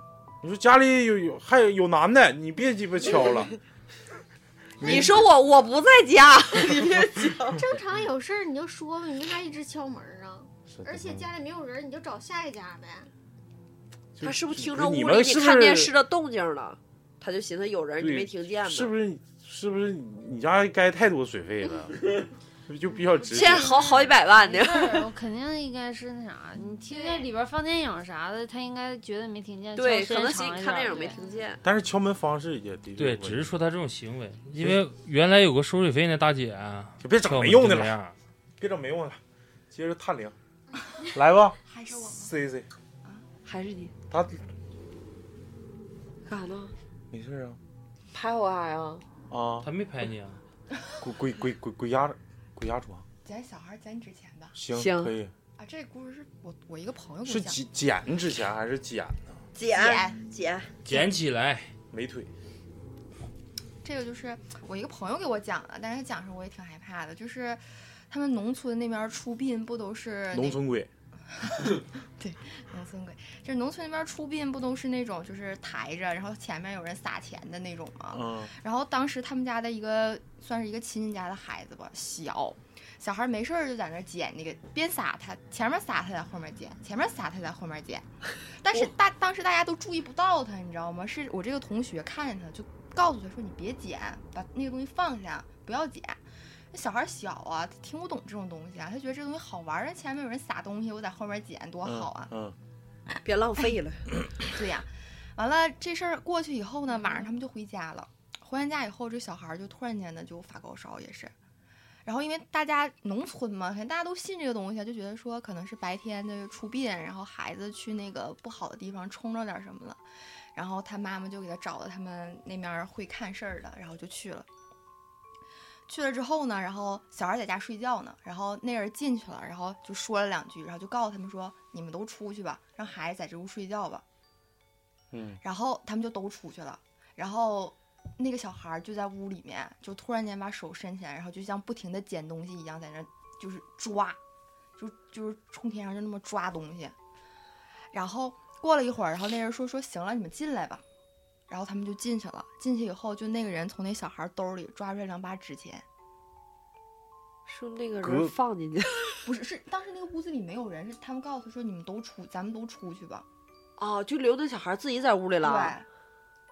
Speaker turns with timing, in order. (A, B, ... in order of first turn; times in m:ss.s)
0:00.4-0:03.5 A
0:03.1-0:03.4 B
0:04.8-0:05.2 A
0:04.8-0:07.6 B
0:07.5-0:13.1 C
0:10.7-0:11.3 A
0:14.2-0:15.9 A
0:14.2-0:18.9 B
0:18.0-0:22.0 A
0:22.7-0:23.7 A
0:23.3-0:31.2 D
0:23.3-0:25.1 B
0:26.9-0:27.3 C
0:29.8-0:31.6 B
0:31.6-0:33.6 A
0:33.0-0:38.2 E
0:34.6-0:34.8 A
0:37.0-0:38.0 A
0:38.6-0:39.2 A
0:39.7-0:40.3 A
0:41.1-0:42.7 A
0:41.6-0:42.3 F
0:43.4-0:43.9 B
0:44.1-0:44.4 A
0:46.2-0:46.7 B
0:47.1-0:47.6 A
0:48.1-0:49.0 B
0:49.3-0:49.7 A
0:49.6-0:50.4 E
0:51.0-0:53.0 A
0:53.2-0:54.6 F
0:54.5-0:55.3 A
0:54.7-0:55.1 B
0:55.6-0:57.6 F
0:57.3-0:59.4 A
0:59.5-1:00.7 B
0:59.7-1:00.2 F
1:00.8-1:01.7 E
1:01.9-1:02.3 A
1:03.8-1:10.6 F
1:10.3-1:10.9 A
1:11.3-1:42.3 F
1:18.1-1:18.5 A
1:41.8-1:42.5 A
1:43.2-1:44.0 B
1:44.5-1:51.3 F
1:52.0-2:00.0 F
2:00.5-2:04.5 F
2:05.9-2:14.0 F
2:15.1-2:15.4 A
2:15.4-2:24.2 F
2:24.8-2:26.9 F
2:27.9-2:30.8 F
2:31.5-2:35.8 F
2:37.4-2:39.2 B
2:38.0-2:38.3 A
2:39.2-2:43.2 F
2:43.8-2:45.8 B
2:45.4-2:45.8 F